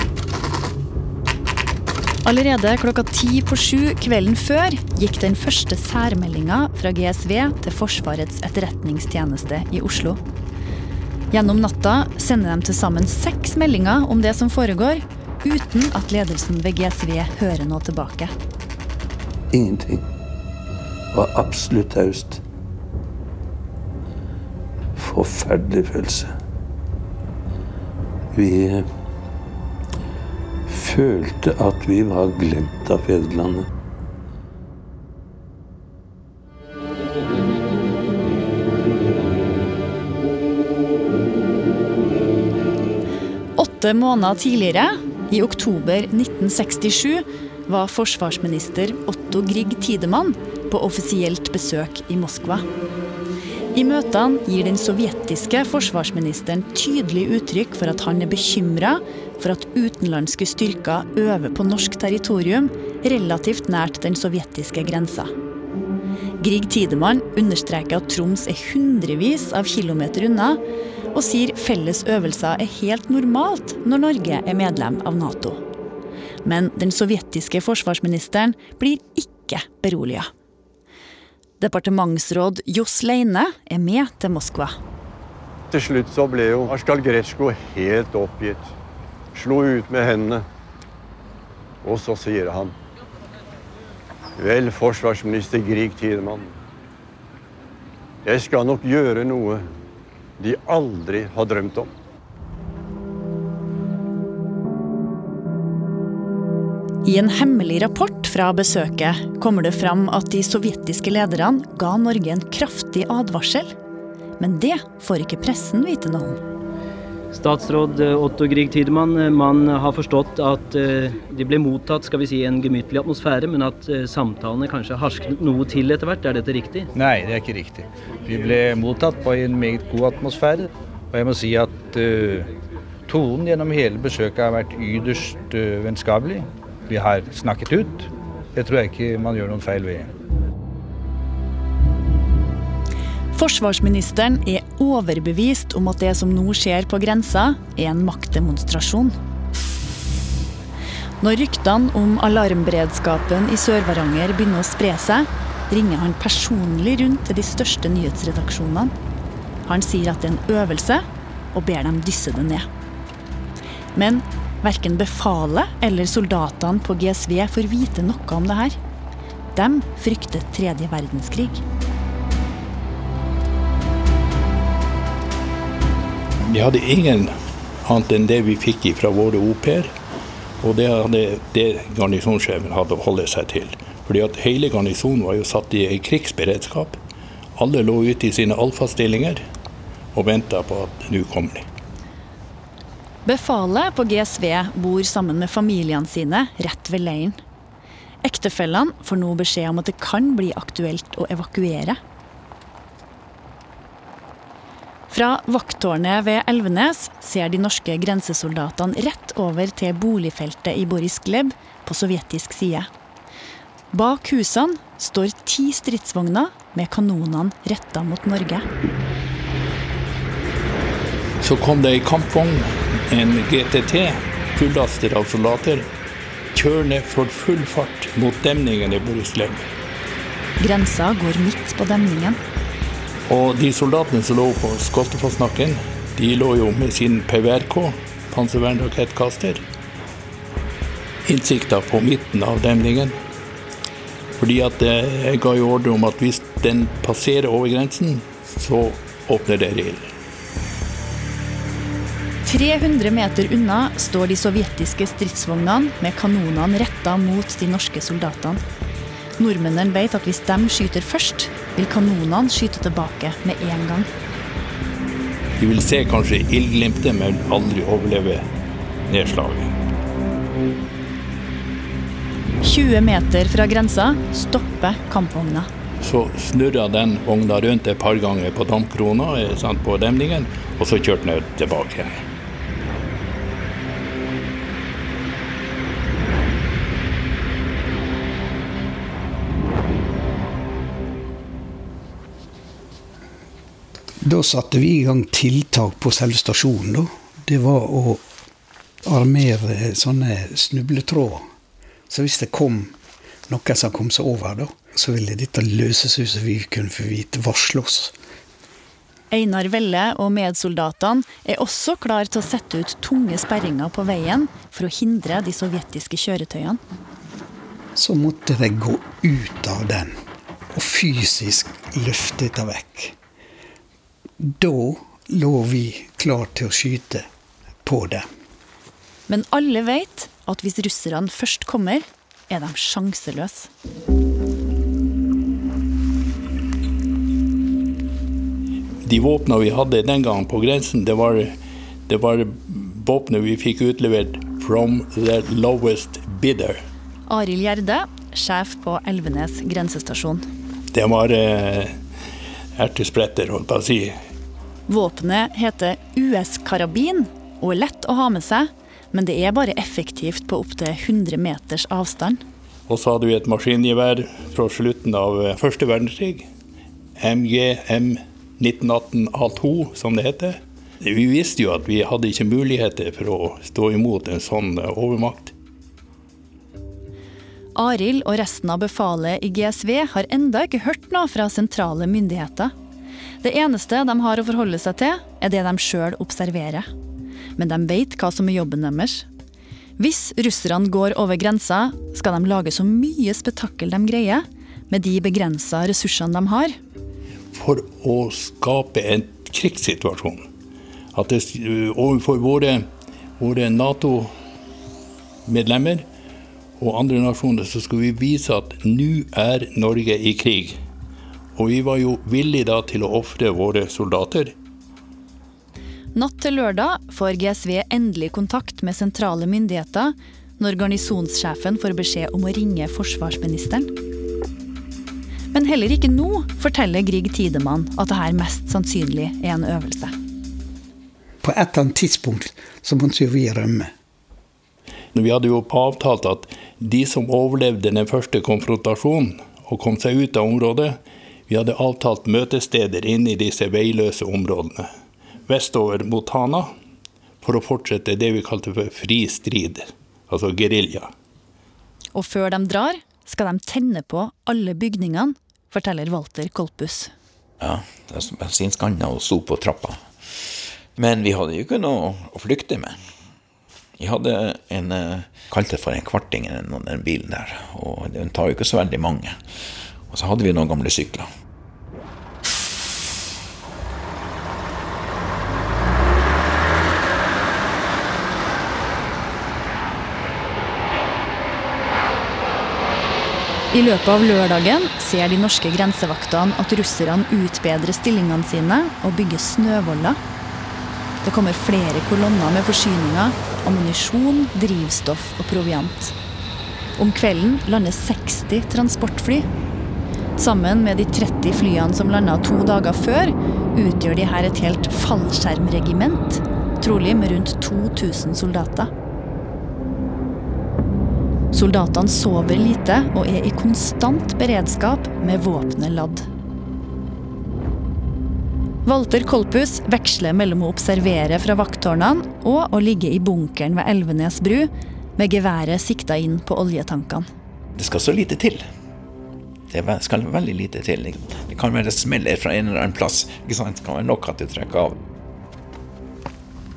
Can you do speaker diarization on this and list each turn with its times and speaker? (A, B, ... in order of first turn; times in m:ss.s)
0:02.2-0:10.2 A
0:11.3-0:18.3 A
0:19.5-0:20.0 B
0:21.1-0:22.4 B
0:25.0-0:26.3 B
0:28.3-0:28.9 B
0:30.7-0:33.7 B
0:43.6-0:52.6 A
0:53.7-1:05.3 A
1:06.4-1:10.6 A
1:11.1-1:15.6 A
1:16.4-1:20.3 A
1:21.6-1:24.8 A
1:25.7-1:28.7 C
1:29.3-1:30.4 C
1:31.8-1:32.7 C
1:34.4-1:36.5 C
1:38.2-1:39.7 C
1:40.4-1:41.9 C
1:47.0-1:53.7 A
1:54.4-1:56.4 A
1:57.3-2:06.9 D
2:06.9-2:12.5 E
2:13.1-2:20.1 E
2:23.3-2:29.2 A
2:31.2-2:38.9 A
2:39.6-2:42.7 A
2:44.0-2:48.8 A
2:49.5-2:51.6 A
2:56.4-2:57.3 F
2:57.8-2:59.9 F
3:00.6-3:07.0 F
3:07.6-3:09.4 F
3:10.1-3:11.6 F
3:13.2-3:17.4 A
3:18.2-3:22.0 A
3:25.1-3:32.9 A
3:33.9-3:38.6 A
3:41.4-3:45.8 F
3:46.5-3:49.6 F
3:50.6-3:52.4 A
3:53.3-3:59.6 F
4:01.2-4:03.1 F
4:04.4-4:10.1 F
4:12.4-4:18.6 A
4:19.4-4:24.1 A
4:25.6-4:28.4 F
4:29.1-4:29.7 F
4:32.6-4:35.7 A
4:36.0-4:42.2 F
4:54.2-4:58.2 G
4:59.0-5:01.5 G
5:02.1-5:03.0 G
5:03.5-5:08.2 G
5:09.3-5:16.8 A
5:18.0-5:20.2 G
5:20.7-5:23.2 G
5:24.4-5:27.2 G
5:27.8-5:28.3 G
5:29.3-5:33.7 A
5:39.0-5:41.5 F
5:42.1-5:46.8 F
5:47.3-5:50.4 A
5:50.9-5:52.0 F
5:52.8-5:54.2 F
5:54.9-6:02.4 A
6:02.9-6:06.5 F
6:07.2-6:15.5 F
6:17.8-6:22.7 A
6:23.4-6:26.9 A
6:27.6-6:29.2 A
6:30.0-6:36.8 A
6:37.5-6:40.4 F
6:41.1-6:42.8 F
6:43.4-6:44.3 F
6:45.4-6:46.0 F
6:46.8-6:50.8 F
6:51.6-6:54.5 F
6:56.1-7:03.9 A
7:05.5-7:10.1 A
7:11.4-7:13.9 G
7:15.1-7:24.9 F
7:25.5-7:26.7 F
7:27.4-7:31.1 F
7:32.1-7:37.1 A
7:37.6-7:43.0 H
7:44.0-7:49.4 H
7:50.1-7:51.3 H
8:03.7-8:10.2 A
8:11.2-8:16.1 A
8:17.0-8:19.5 A
8:20.4-8:28.9 A
8:31.5-8:36.2 A
8:38.8-8:47.2 A
8:47.8-8:48.7 H
8:49.7-8:55.0 H